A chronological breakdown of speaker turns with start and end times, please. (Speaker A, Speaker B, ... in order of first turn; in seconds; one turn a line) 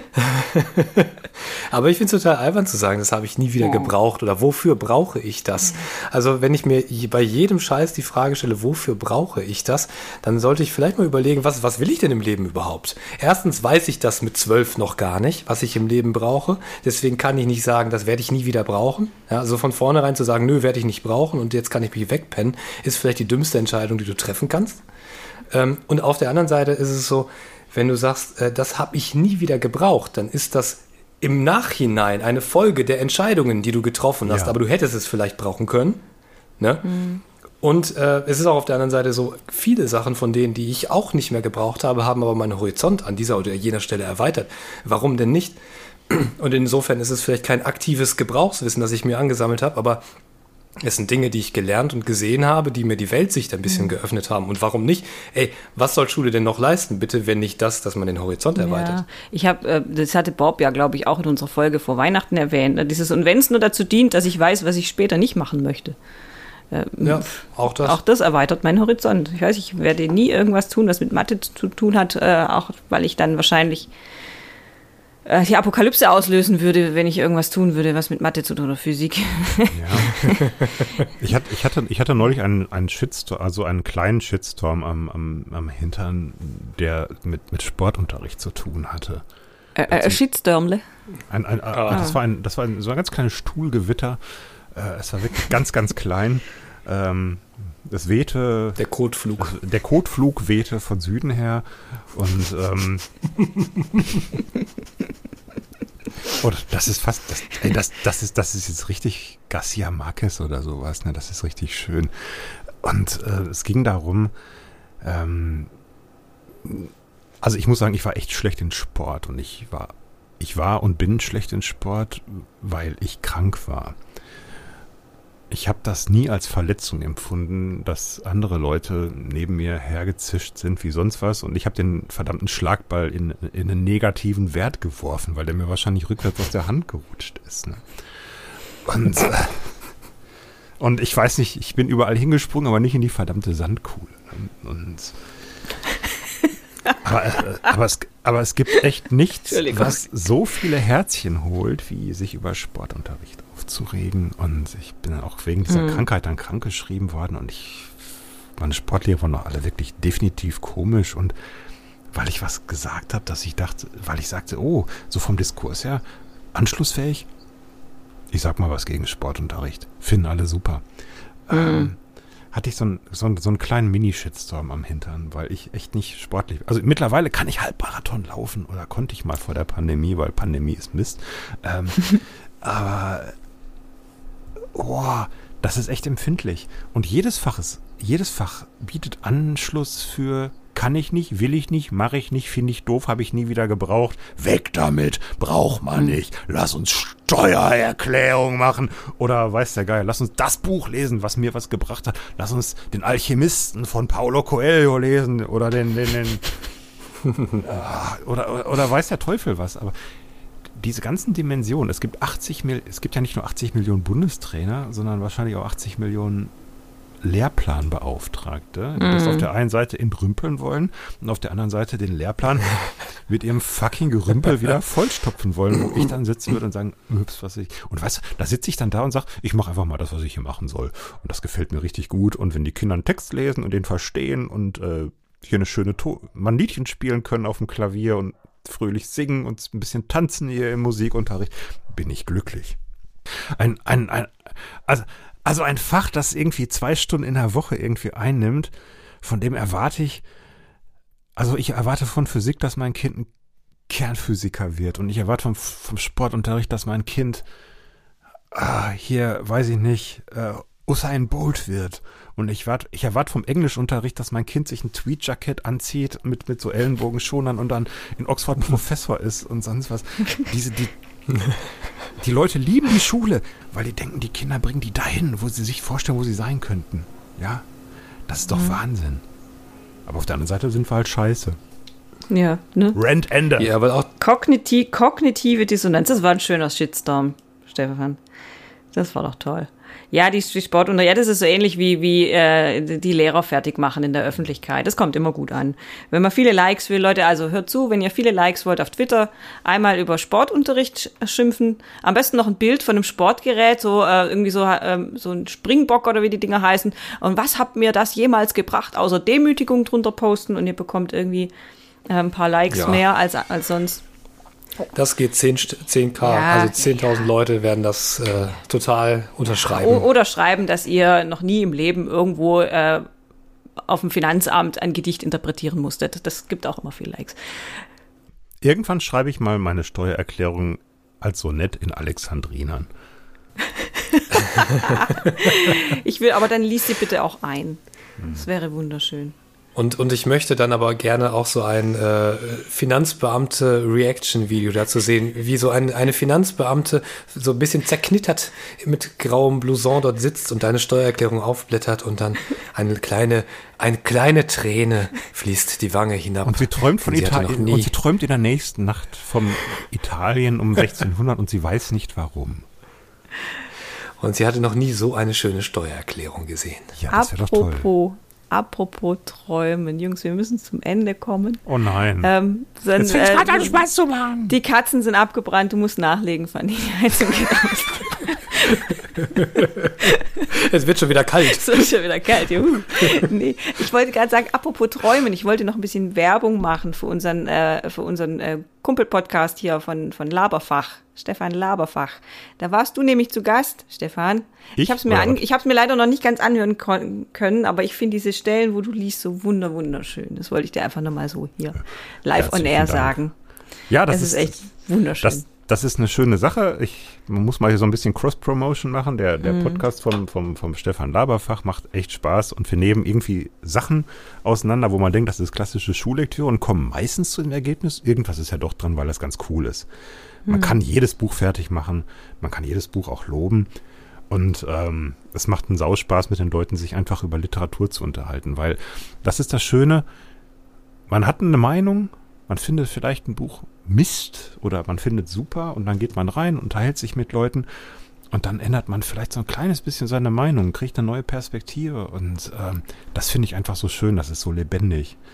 Speaker A: 0.1-24.8
Speaker B: 3.6-3.9
Speaker A: 25.5-36.0
Speaker C: 34.3-34.5
Speaker A: 36.6-36.9
Speaker B: 36.9-37.2
Speaker A: 37.6-45.6
Speaker A: 46.1-50.0
Speaker A: 50.8-59.0
Speaker B: 58.6-66.0
Speaker B: 66.7-73.9
Speaker A: 67.0-68.0
Speaker B: 75.2-80.5
Speaker C: 79.7-80.3
Speaker C: 81.2-89.2
Speaker B: 89.8-90.8
Speaker C: 89.9-90.2
Speaker C: 91.3-94.2
Speaker A: 91.7-92.1
Speaker C: 94.7-98.8
Speaker A: 98.8-99.5
Speaker C: 99.4-103.1
Speaker C: 106.4-114.3
Speaker C: 115.0-115.7
Speaker C: 116.6-124.0
Speaker C: 125.5-137.8
Speaker C: 138.8-139.8
Speaker C: 140.8-145.2
Speaker C: 147.0-158.1
Speaker B: 149.5-150.0
Speaker B: 155.7-156.0
Speaker C: 158.6-161.3
Speaker C: 162.1-166.0
Speaker C: 166.5-167.3
Speaker C: 168.3-170.8
Speaker C: 171.5-172.0
Speaker B: 171.5-171.9
Speaker C: 172.5-183.3
Speaker C: 184.7-206.4
Speaker C: 207.5-209.9
Speaker C: 210.8-216.5
Speaker C: 217.2-242.8
Speaker B: 219.0-219.5
Speaker C: 243.6-248.7
Speaker C: 249.2-250.2
Speaker C: 251.4-253.3
Speaker C: 253.9-257.4
Speaker C: 258.5-277.6
Speaker C: 278.3-279.2
Speaker B: 278.5-278.8
Speaker C: 280.1-281.6
Speaker B: 282.3-283.0
Speaker C: 282.9-283.7
Speaker A: 283.6-284.1
Speaker B: 284.2-288.2
Speaker B: 288.9-311.5
Speaker B: 312.1-314.0
Speaker A: 312.7-313.0
Speaker A: 314.9-320.1
Speaker B: 316.2-316.9
Speaker B: 319.8-323.1
Speaker B: 323.9-327.8
Speaker C: 328.6-332.9
Speaker B: 333.7-339.4
Speaker A: 339.8-357.9
Speaker C: 356.4-362.6
Speaker A: 364.2-366.9
Speaker C: 367.0-367.9
Speaker B: 367.1-371.6
Speaker C: 371.6-372.3
Speaker B: 372.2-373.8
Speaker C: 372.9-374.5
Speaker B: 374.5-380.5
Speaker A: 379.6-379.9
Speaker A: 380.5-381.9
Speaker B: 381.5-403.3
Speaker C: 394.8-395.4
Speaker C: 402.3-403.2
Speaker C: 403.9-404.6
Speaker B: 404.1-405.4
Speaker C: 405.2-419.9
Speaker B: 409.4-409.8
Speaker B: 420.5-420.8
Speaker C: 420.5-423.7
Speaker C: 424.3-430.1
Speaker C: 431.1-437.7
Speaker C: 438.3-445.2